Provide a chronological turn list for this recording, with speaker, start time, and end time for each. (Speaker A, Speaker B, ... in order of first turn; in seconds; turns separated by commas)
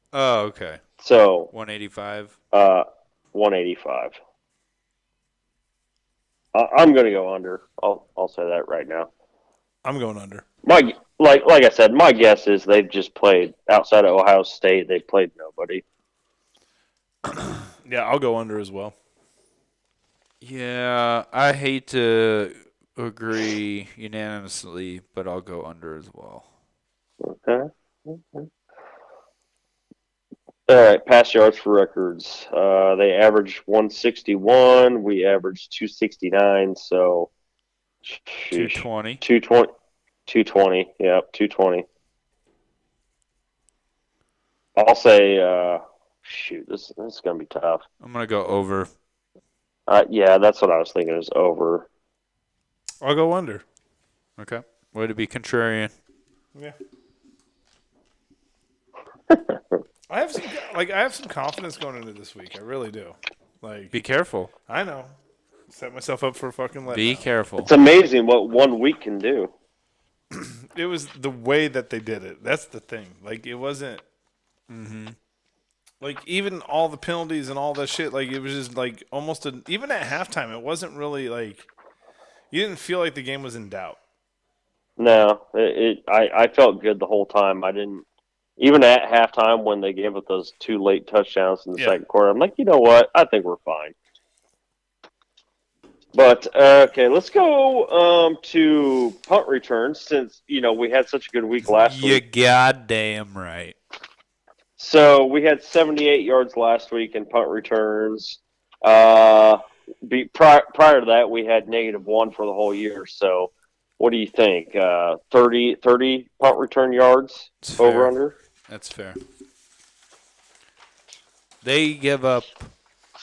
Speaker A: 0.1-0.8, Speaker B: 1.0-1.5, Speaker A: 1.5-2.4, Speaker B: 2.5-4.2, Speaker B: 6.5-9.1, Speaker C: 9.8-10.4, Speaker B: 10.6-15.8, Speaker C: 17.8-18.9, Speaker A: 20.4-26.4, Speaker B: 27.2-28.5, Speaker B: 30.7-37.3, Speaker B: 38.1-39.7, Speaker A: 38.5-39.2, Speaker B: 40.3-41.9, Speaker B: 44.8-47.8, Speaker A: 48.0-48.9, Speaker B: 49.9-51.9, Speaker C: 53.0-53.6, Speaker A: 54.4-55.9, Speaker B: 59.3-59.7, Speaker C: 60.1-64.0, Speaker A: 63.9-64.5, Speaker C: 64.7-65.1, Speaker C: 65.7-67.2, Speaker A: 66.9-67.7, Speaker B: 67.6-69.5, Speaker C: 70.3-74.0, Speaker A: 74.7-75.2, Speaker C: 76.0-81.7, Speaker C: 82.5-84.0, Speaker B: 85.0-88.0, Speaker B: 88.6-93.9, Speaker B: 96.2-102.2, Speaker A: 101.7-103.8, Speaker B: 104.8-118.4, Speaker A: 117.6-118.2, Speaker A: 118.7-119.2, Speaker A: 121.6-122.7